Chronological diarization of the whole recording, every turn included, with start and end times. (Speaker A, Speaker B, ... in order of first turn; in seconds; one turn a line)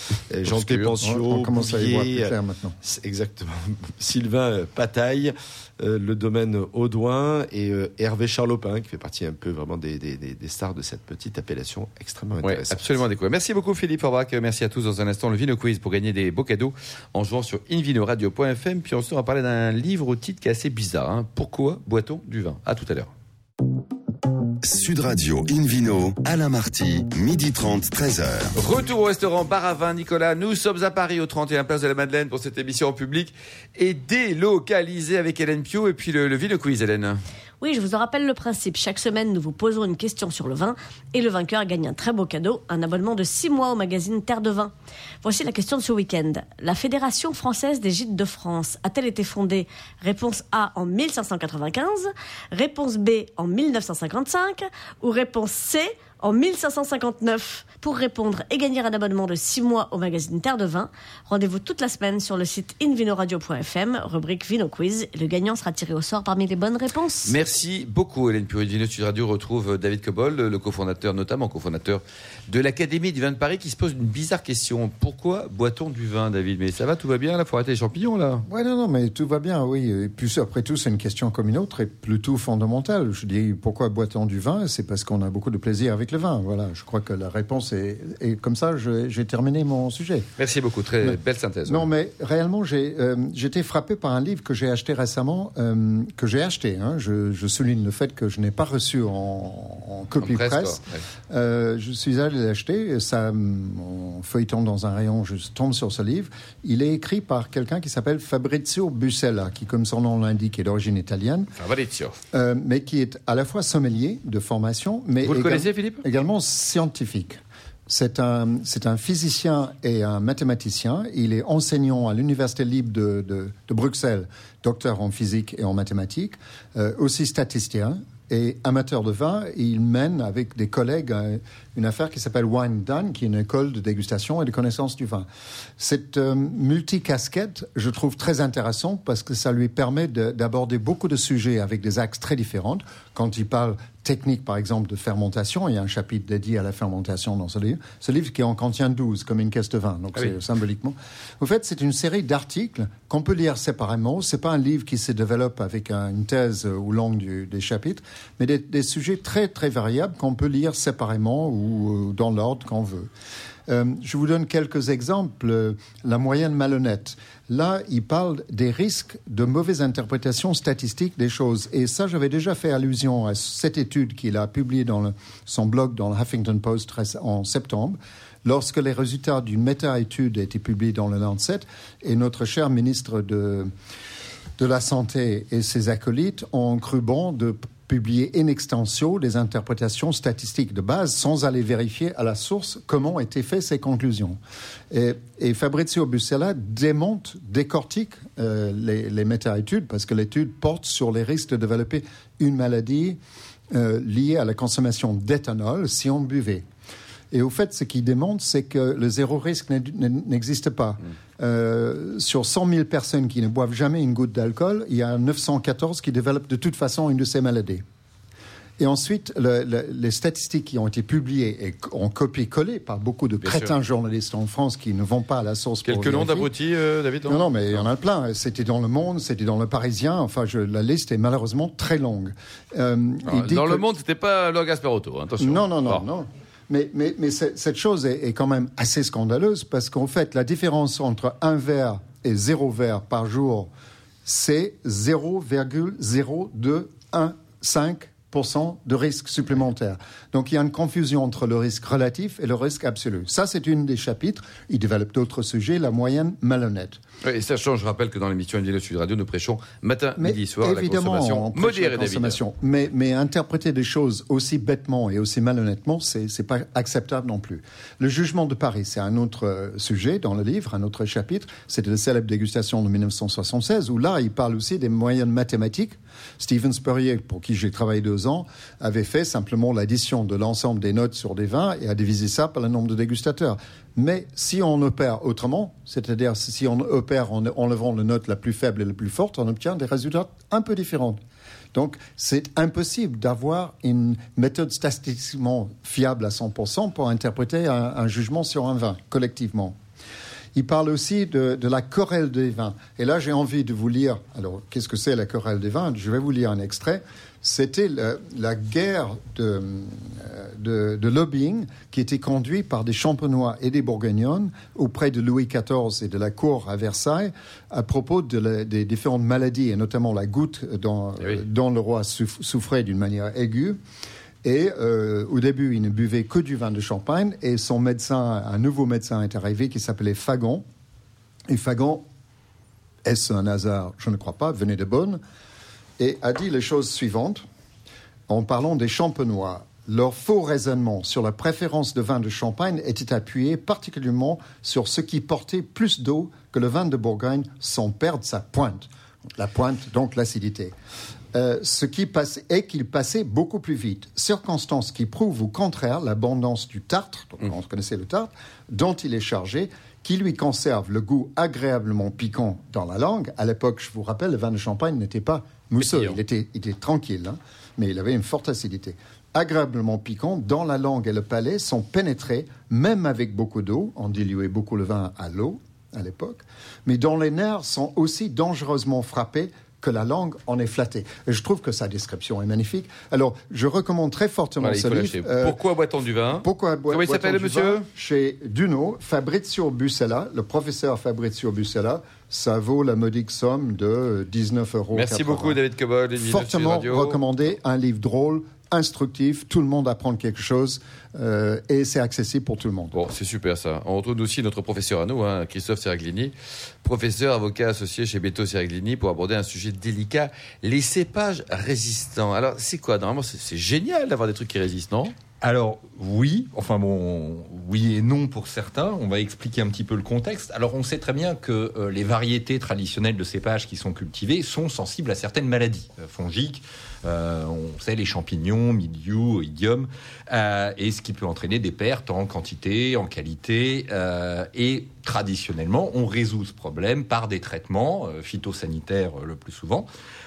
Speaker A: 0.3-13.0
Speaker B: 0.4-1.0
Speaker C: 1.0-2.8
Speaker B: 12.4-23.1
Speaker D: 24.6-28.6
Speaker B: 28.6-37.2
Speaker E: 37.6-67.4
Speaker B: 67.3-78.5
Speaker C: 78.5-90.3
Speaker B: 90.4-91.9
Speaker C: 91.0-111.5
Speaker B: 100.2-101.0
Speaker B: 111.6-112.2
Speaker C: 112.3-135.3
Speaker B: 115.2-116.0
Speaker C: 135.8-163.1
Speaker C: 163.7-183.7
Speaker C: 184.6-194.4
Speaker C: 194.9-203.2
Speaker C: 203.7-206.7
Speaker C: 207.3-217.8
Speaker C: 218.8-226.5
Speaker B: 223.4-223.7
Speaker B: 225.8-227.5
Speaker C: 227.2-233.8
Speaker B: 233.2-236.0
Speaker C: 235.4-243.7
Speaker C: 244.2-257.0
Speaker B: 257.2-262.4
Speaker C: 260.2-291.2
Speaker C: 291.7-299.8
Speaker C: 300.6-323.8
Speaker C: 324.4-330.7
Speaker C: 331.5-332.1
Speaker C: 333.1-335.2
Speaker C: 336.0-337.4
Speaker C: 338.3-350.7
Speaker C: 351.3-385.6
Speaker B: 365.8-366.2
Speaker B: 384.6-387.9
Speaker C: 386.4-395.6
Speaker B: 394.9-397.2
Speaker C: 396.2-403.0
Speaker B: 402.9-415.1
Speaker F: 415.4-439.9